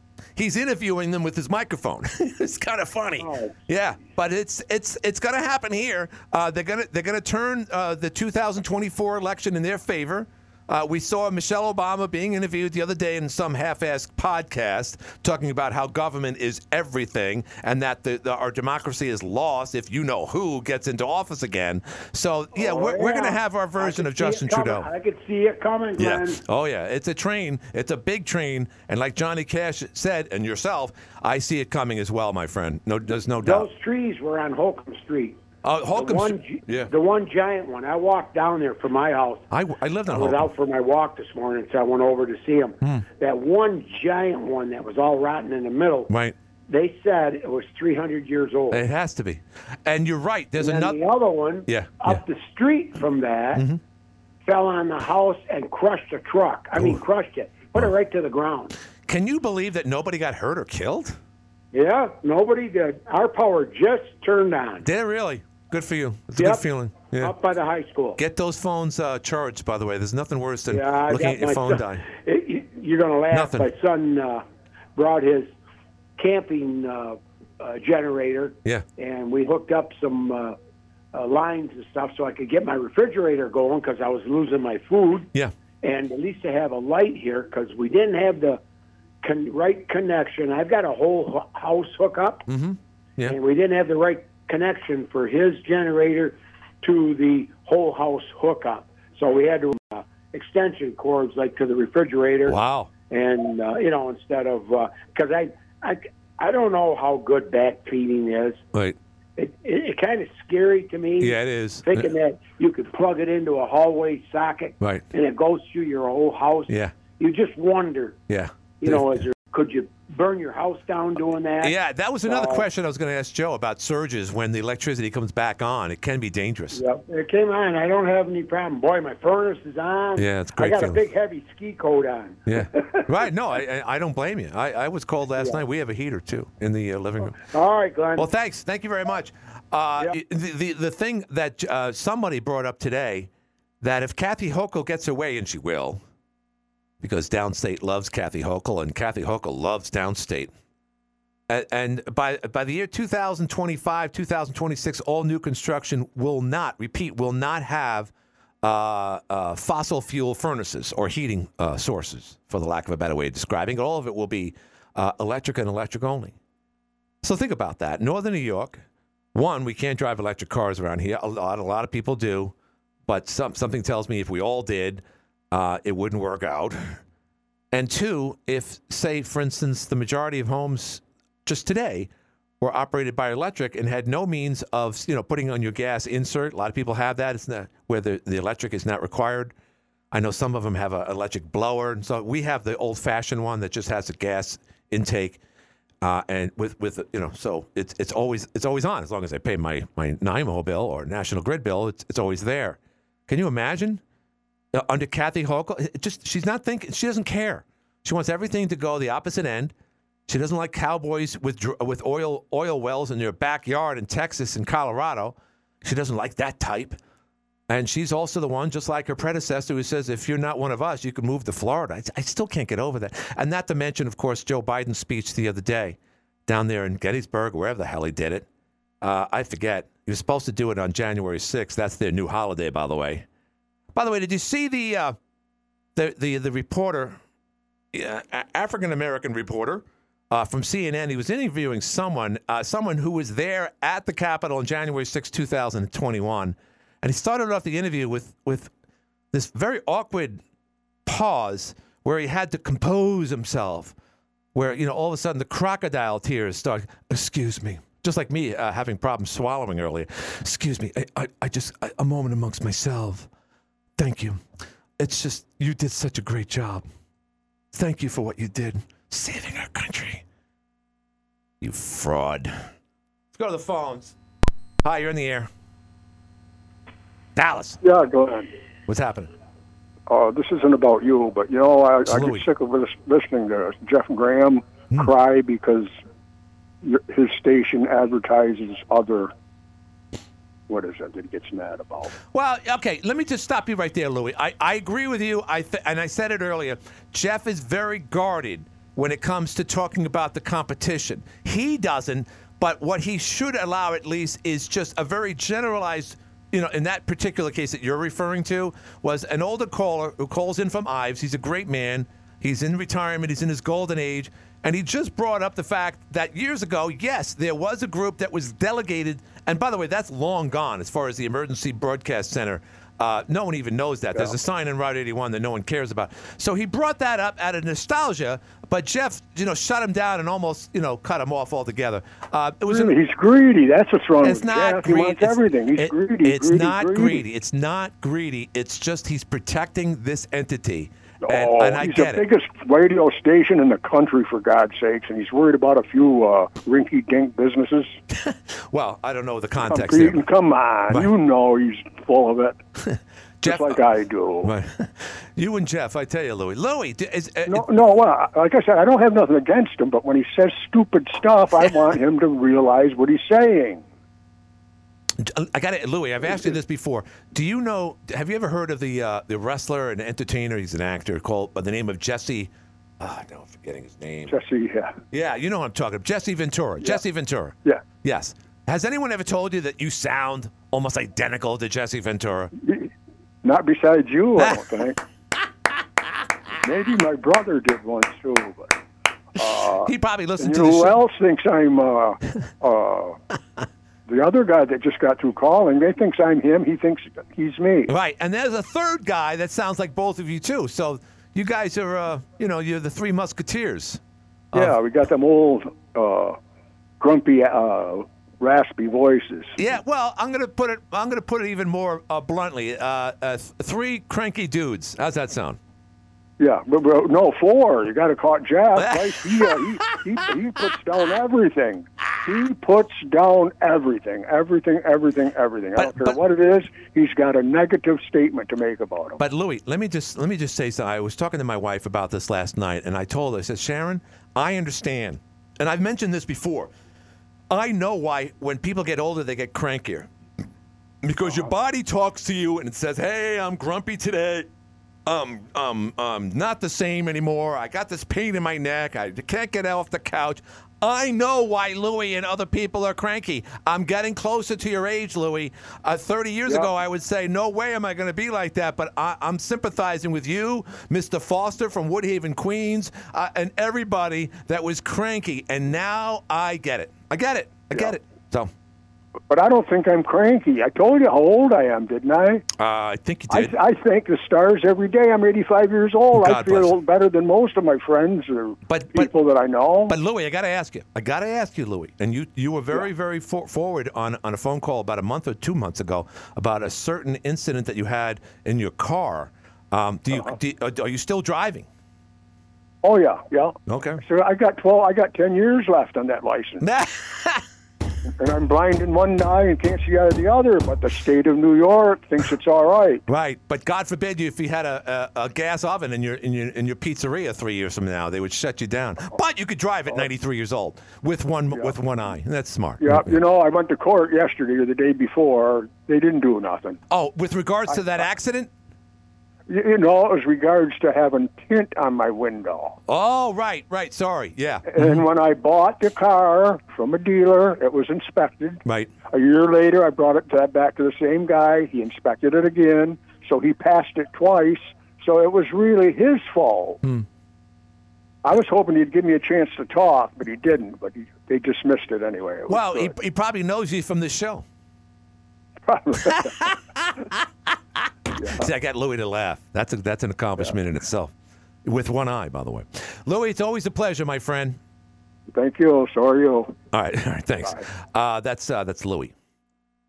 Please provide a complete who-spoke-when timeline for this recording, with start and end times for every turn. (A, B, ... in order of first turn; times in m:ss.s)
0:00.4-0:24.9 A
0:03.2-0:03.6 B
0:22.5-0:26.4 B
0:26.0-0:33.7 A
0:33.4-0:35.4 B
0:35.6-0:36.9 A
0:36.0-0:39.4 B
0:39.5-0:40.5 A
0:40.1-0:46.1 B
0:46.1-0:46.3 A
0:46.7-0:48.8 B
0:48.7-0:51.0 A
0:50.6-0:53.6 B
0:51.7-0:52.2 A
0:53.5-0:53.8 A
0:54.4-0:58.7 B
0:59.0-1:01.2 A
1:01.7-1:04.8 B
1:04.8-1:07.3 A
1:06.4-1:06.6 B
1:07.2-1:08.2 B
1:08.2-1:12.0 A
1:10.7-1:14.4 B
1:13.3-1:13.7 A
1:15.0-1:15.5 B
1:16.2-1:20.6 B
1:21.1-1:25.3 B
1:25.8-1:28.6 B
1:29.2-1:32.4 B
1:32.5-1:33.4 A
1:33.3-1:42.6 B
1:42.4-1:42.9 A
1:43.1-1:48.6 B
1:49.4-1:58.2 B
1:51.2-1:52.1 A
1:54.8-1:55.0 A
1:56.7-1:57.0 A
1:58.3-1:59.2 A
1:58.8-2:01.7 B
2:01.6-2:06.8 A
2:02.2-2:02.6 B
2:06.7-2:13.0 B
2:10.2-2:11.0 A
2:12.5-2:17.4 A
2:17.4-2:18.3 B
2:18.2-2:23.3 A
2:23.8-2:26.0 A
2:27.0-2:30.5 A
2:31.5-2:38.1 A
2:38.6-2:46.4 A
2:47.2-2:48.8 A
2:49.3-2:52.5 A
2:53.0-2:57.0 A
2:57.7-3:09.5 A
3:10.1-3:15.4 A
3:16.0-3:24.0 A
3:24.7-3:29.7 A
3:30.3-3:37.0 A
3:37.7-3:48.4 A
3:49.0-3:53.2 A
3:53.9-3:55.2 A
3:56.0-3:57.2 A
3:57.9-4:08.7 A
4:09.3-4:10.4 A
4:11.0-4:13.9 A
4:14.5-4:23.3 A
4:24.0-4:24.4 A
4:25.0-4:26.8 A
4:27.7-4:30.2 A
4:31.6-4:32.7 A
4:33.3-4:34.2 A
4:34.8-4:35.5 A
4:37.4-4:37.8 A
4:37.8-4:38.5 C
4:38.9-4:39.3 A
4:40.1-4:45.9 C
4:42.0-4:42.4 A
4:46.8-4:49.3 C
4:50.7-4:52.2 C
4:52.3-5:33.0 A
5:32.6-5:37.2 C
5:34.2-5:42.2 A
5:41.2-5:48.0 C
5:48.1-5:50.2 A
5:49.6-5:52.6 C
5:52.8-5:53.8 A
5:53.4-5:54.5 C
5:54.4-5:57.7 A
5:57.5-6:03.8 C
6:05.2-6:14.3 A
6:14.3-6:14.9 C
6:15.1-6:22.5 A
6:22.5-6:22.9 C
6:23.4-6:25.0 C
6:24.4-6:24.7 A
6:26.6-6:28.8 C
6:29.4-6:33.2 C
6:29.8-6:31.0 A
6:34.1-6:37.9 C
6:37.9-6:44.0 A
6:44.5-6:46.4 C
6:47.0-6:49.6 C
6:49.6-6:55.6 A
6:56.4-7:09.2 C
6:58.8-7:00.0 A
7:05.8-7:06.2 A
7:09.2-7:16.7 A
7:17.5-7:20.1 A
7:21.0-7:24.5 A
7:25.0-7:48.5 A
7:49.3-7:52.4 C
7:52.6-7:53.5 A
7:53.3-7:59.9 C
7:56.1-7:56.7 A
7:58.7-7:59.1 A
7:59.9-8:11.7 A
8:12.8-8:16.6 C
8:13.7-8:14.0 A
8:16.6-8:17.4 A
8:18.2-8:23.0 C
8:23.1-8:33.1 A
8:32.8-8:36.8 C
8:36.9-8:38.5 A
8:37.7-8:38.0 C
8:39.5-8:42.8 C
8:42.9-8:45.0 A
8:44.7-8:56.8 C
8:48.6-8:48.9 A
8:58.2-9:02.9 C
9:02.5-9:04.4 A
9:05.7-9:06.5 C
9:06.0-9:11.1 A
9:08.2-9:08.5 C
9:11.6-9:14.6 A
9:15.3-9:16.5 C
9:16.7-9:19.1 A